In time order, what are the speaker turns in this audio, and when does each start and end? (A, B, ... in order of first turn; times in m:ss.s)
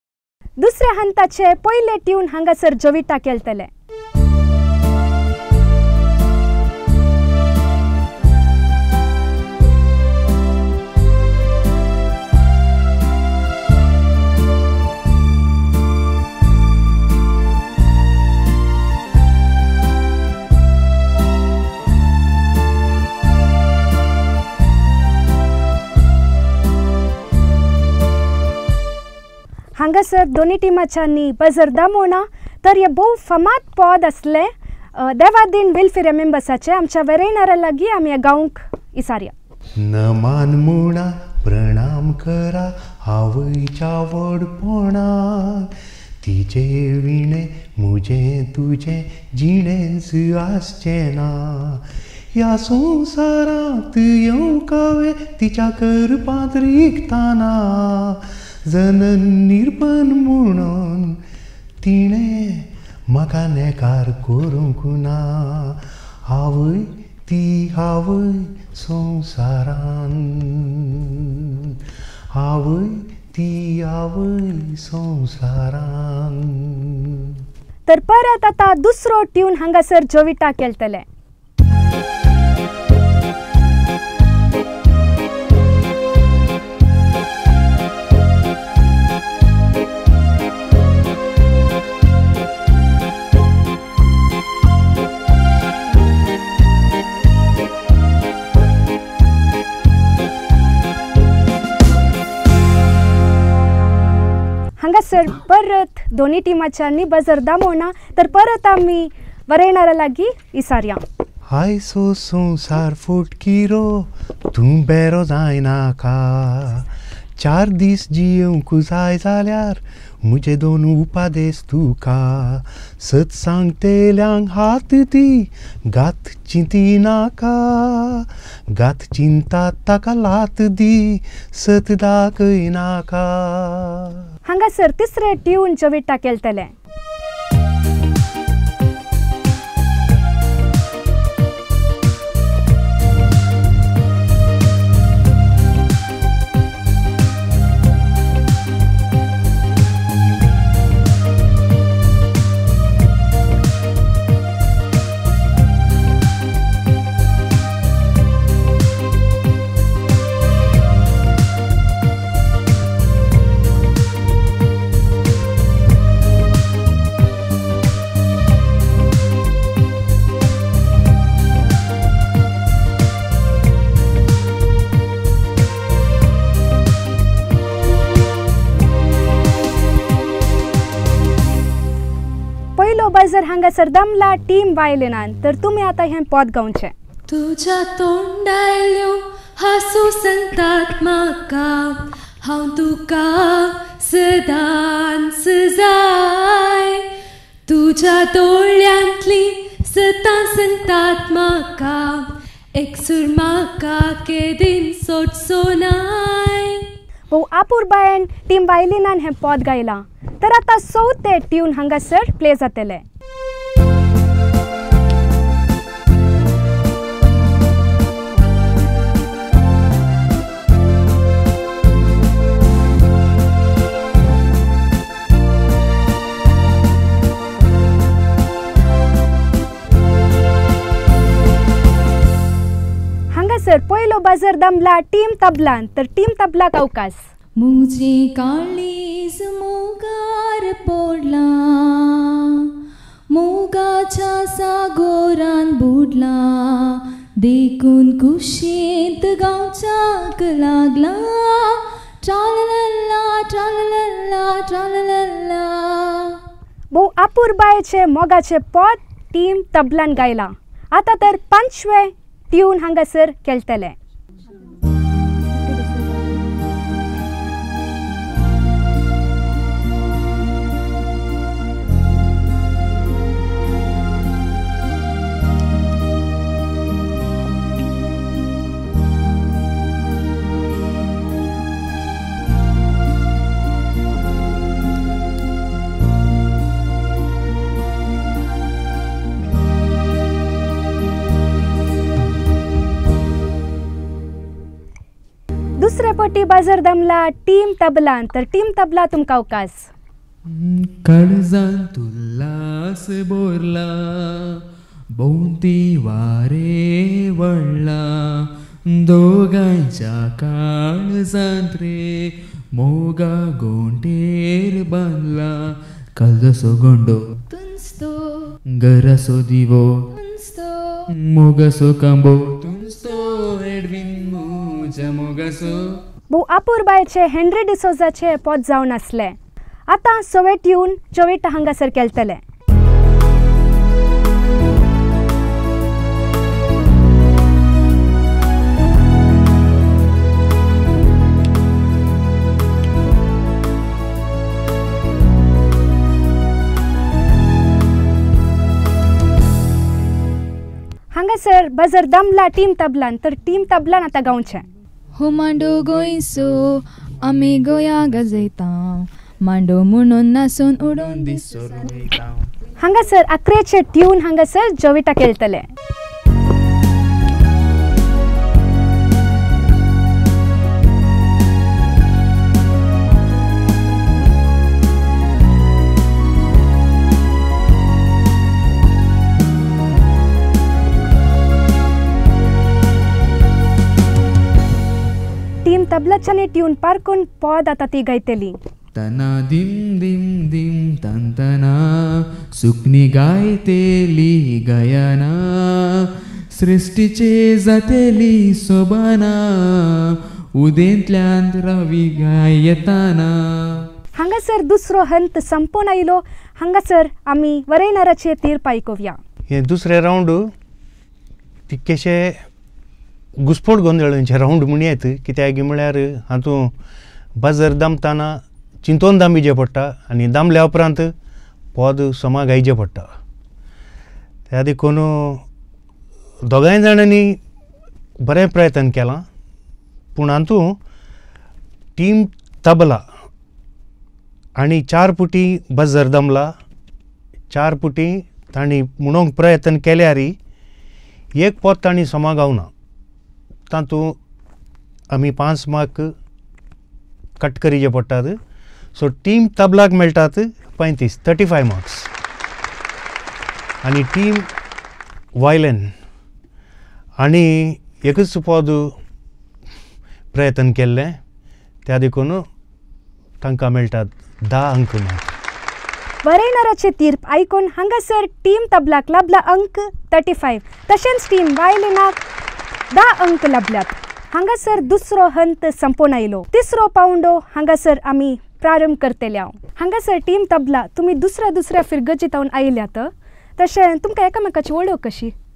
0:00.6-0:03.7 A
0:29.8-0:39.3 A
0:39.8-1:01.2 B
1:01.8-1:11.8 B
1:12.3-1:17.4 B
1:17.9-1:21.0 A
1:44.8-1:51.0 A
1:51.5-2:14.3 B
2:14.4-2:16.7 A
3:02.8-3:06.9 A
3:07.3-3:17.0 C
3:17.7-3:26.9 C
3:27.3-3:33.0 A
3:53.3-3:57.2 A
3:57.6-4:02.7 D
4:03.3-4:16.4 D
4:16.9-4:23.9 A
4:55.8-4:59.8 A
5:00.5-5:04.6 E
5:05.2-5:15.5 E
5:16.2-5:17.2 E
5:17.5-5:18.5 D
5:18.8-5:20.0 E
5:20.1-5:21.1 D
5:21.1-5:25.8 E
5:26.3-5:29.4 A
5:29.9-5:32.4 A
5:51.1-5:54.6 A
5:55.2-6:01.9 D
5:57.2-5:58.4 E
6:00.8-6:02.5 E
6:02.8-6:05.7 A
6:25.6-6:28.6 A
6:28.9-6:43.8 E
6:44.1-6:49.2 A
6:49.5-6:50.5 B
6:51.7-6:52.4 B
6:53.4-6:56.7 B
6:57.4-7:01.1 B
7:01.7-7:03.1 B
7:04.5-7:05.4 B
7:06.4-7:07.4 B
7:08.2-7:09.2 B
7:10.1-7:10.8 B
7:12.0-7:13.0 B
7:14.6-7:16.5 B
7:17.5-7:20.4 B
7:21.4-7:22.7 B
7:23.7-7:24.2 B
7:25.1-7:26.1 B
7:27.4-7:28.4 B
7:28.9-7:32.1 B
7:33.8-7:34.5 B
7:35.4-7:35.9 B
7:37.2-7:38.9 B
7:40.3-7:41.2 B
7:41.8-7:42.4 B
7:43.4-7:45.3 B
7:46.2-7:52.2 A
7:52.9-8:05.3 A